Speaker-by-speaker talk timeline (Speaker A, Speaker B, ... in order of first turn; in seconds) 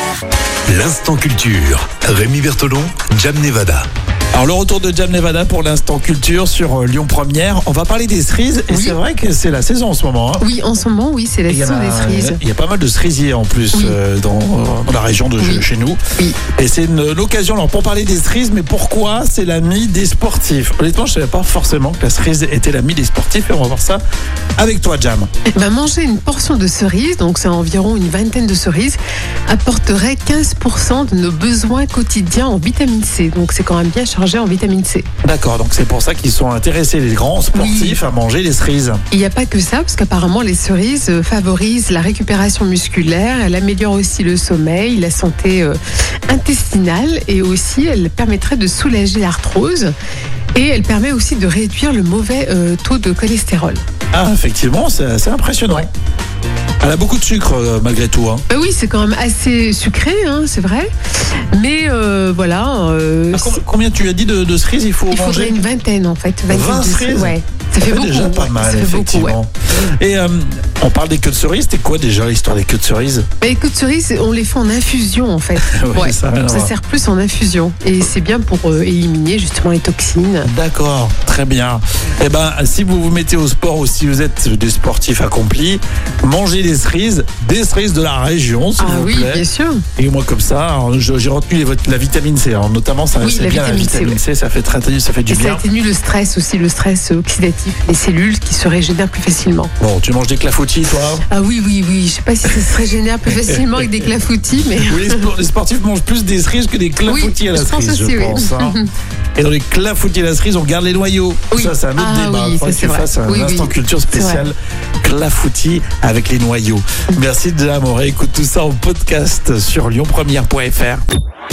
Speaker A: 0.7-3.9
Speaker B: 4.3-10.5, 11.5-24.0, 24.6-25.3, 35.2-39.0, 54.1-55.9, 56.8-58.4, 63.3-65.6, 66.5-73.3, 75.5-76.7, 80.4-89.4, 90.0-95.6, 99.8-101.2, 103.3-104.1, 104.8-108.8, 109.3-121.0
Speaker C: 8.7-9.0, 10.4-12.4, 25.5-35.1, 37.5-38.0, 39.1-49.9, 50.5-53.8, 58.5-63.6, 65.1-69.4, 73.4-80.5, 88.8-89.8, 93.2-94.2, 95.3-99.7, 101.3-105.3, 107.0-108.9, 111.5-114.5